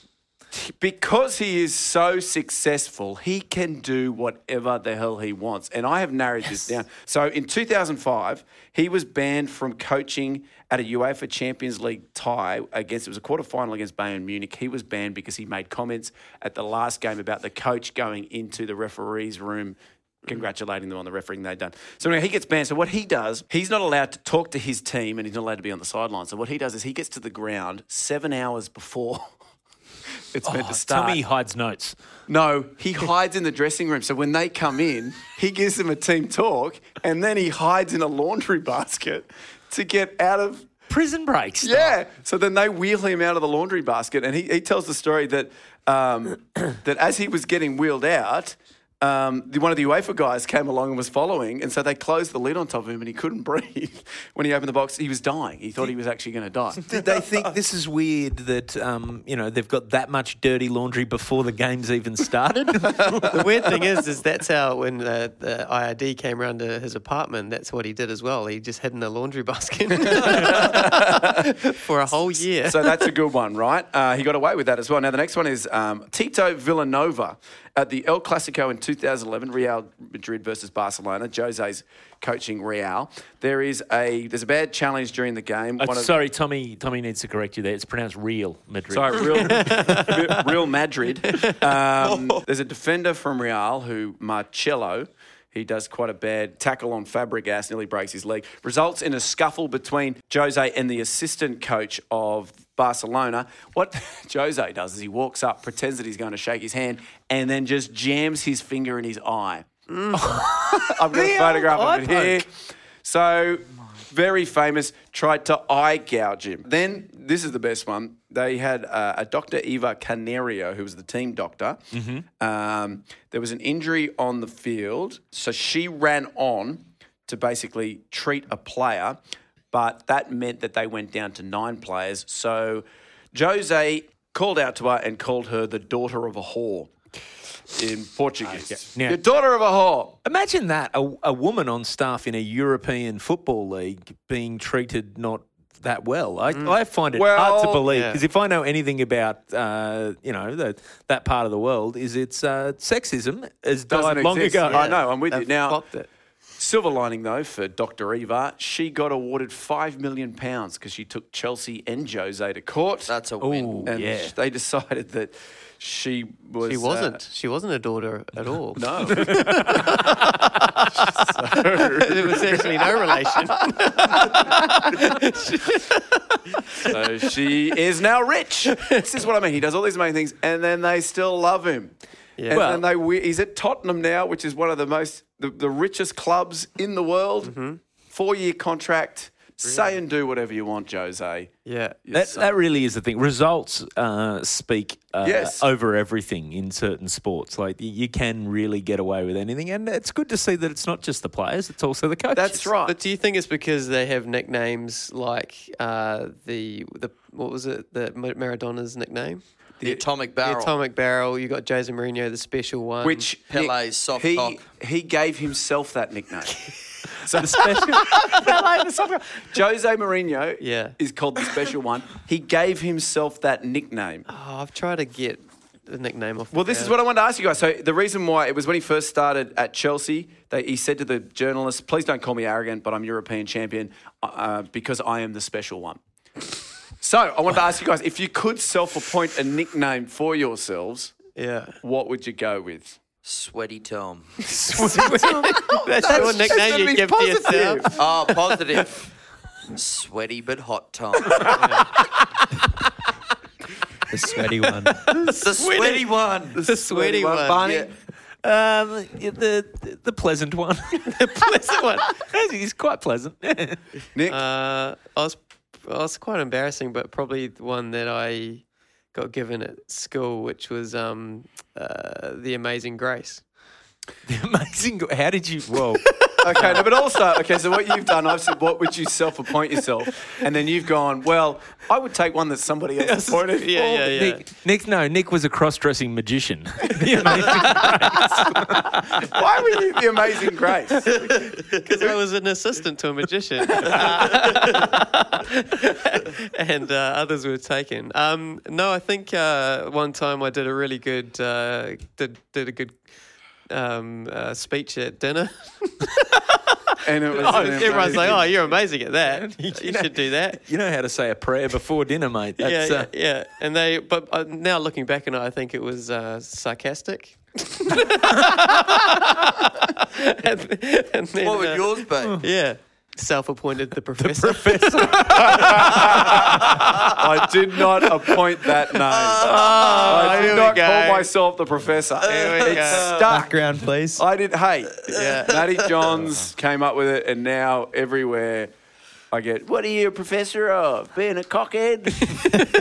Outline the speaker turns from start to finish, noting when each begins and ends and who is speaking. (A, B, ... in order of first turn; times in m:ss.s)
0:00.5-0:29.4 A
0:30.3-0:31.2 A
0:30.4-0:32.0 B
0:32.3-0:40.7 A
0:40.9-0:42.0 B
0:41.6-0:57.0 A
0:56.9-1:03.4 B
1:02.8-1:03.4 A
1:03.3-1:13.1 C
1:10.0-1:11.6 A
1:12.2-1:26.2 A
1:25.8-1:29.9 B
1:28.9-1:49.7 A
1:29.3-1:30.5 C
1:31.3-1:31.6 C
1:32.0-1:32.4 D
1:49.9-1:50.4 C
1:50.1-1:52.4 B
1:50.5-2:09.2 A
2:01.9-2:02.2 B
2:09.7-2:16.9 A
2:17.7-2:20.2 A
2:18.5-2:19.2 B
2:20.2-2:34.9 B
2:26.5-2:26.8 C
2:27.1-2:27.9 A
2:27.9-2:28.2 C
2:33.9-2:35.8 A
2:34.7-2:36.1 C
2:36.6-2:43.1 A
2:43.1-2:43.9 D
2:43.4-2:44.3 B
2:43.8-2:47.2 A
2:46.6-2:51.0 C
2:48.8-2:50.2 A
2:49.1-2:50.0 B
2:51.0-2:53.1 A
2:51.8-2:57.0 C
2:56.8-3:01.9 A
2:58.7-2:59.0 C
3:02.4-3:02.6 C
3:02.5-3:07.5 A
3:02.5-3:02.8 B
3:07.4-3:07.8 C
3:08.1-3:11.5 A
3:09.6-3:09.9 C
3:11.6-3:12.0 C
3:12.0-3:12.6 A
3:12.1-3:22.7 B
3:15.2-3:15.7 A
3:22.3-3:23.0 A
3:22.8-3:29.4 C
3:29.8-3:30.7 D
3:30.4-3:33.3 C
3:33.0-3:44.3 A
3:33.5-3:34.6 D
3:37.4-3:38.5 B
3:38.0-3:38.6 C
3:40.6-3:41.0 C
3:44.3-3:47.0 C
3:46.5-3:56.0 A
3:57.0-4:01.2 A
4:01.4-4:01.8 C
4:01.8-4:03.0 A
4:03.2-4:04.4 D
4:04.5-4:07.9 C
4:04.7-4:08.2 A
4:05.0-4:05.3 B
4:06.0-4:06.6 B
4:07.9-4:09.1 D
4:09.7-4:11.9 D
4:11.5-4:12.0 C
4:14.1-4:15.0 E
4:14.9-4:17.6 C
4:15.4-4:16.6 D
4:16.6-4:17.9 A
4:18.4-4:21.2 B
4:21.0-4:22.2 C
4:22.1-4:23.8 B
4:24.1-4:24.4 A
4:24.3-4:33.4 C
4:34.3-4:36.8 B
4:36.2-4:36.8 C
4:36.4-4:44.2 A
4:43.0-4:44.4 C
4:44.1-4:49.3 B
4:47.0-4:47.8 A
4:49.0-4:51.3 A
4:51.1-5:03.0 C
5:03.7-5:10.6 C
5:07.0-5:08.5 A
5:07.5-5:08.4 B
5:09.3-5:13.1 B
5:12.6-5:27.2 C
5:21.4-5:22.4 D
5:24.2-5:26.9 B
5:25.2-5:33.5 A
5:29.0-5:30.8 D
5:29.4-5:31.3 C
5:32.2-5:33.2 D
5:32.3-5:33.1 C
5:33.2-5:34.2 E
5:34.2-5:38.7 A
5:35.1-5:35.6 C
5:39.3-5:42.4 A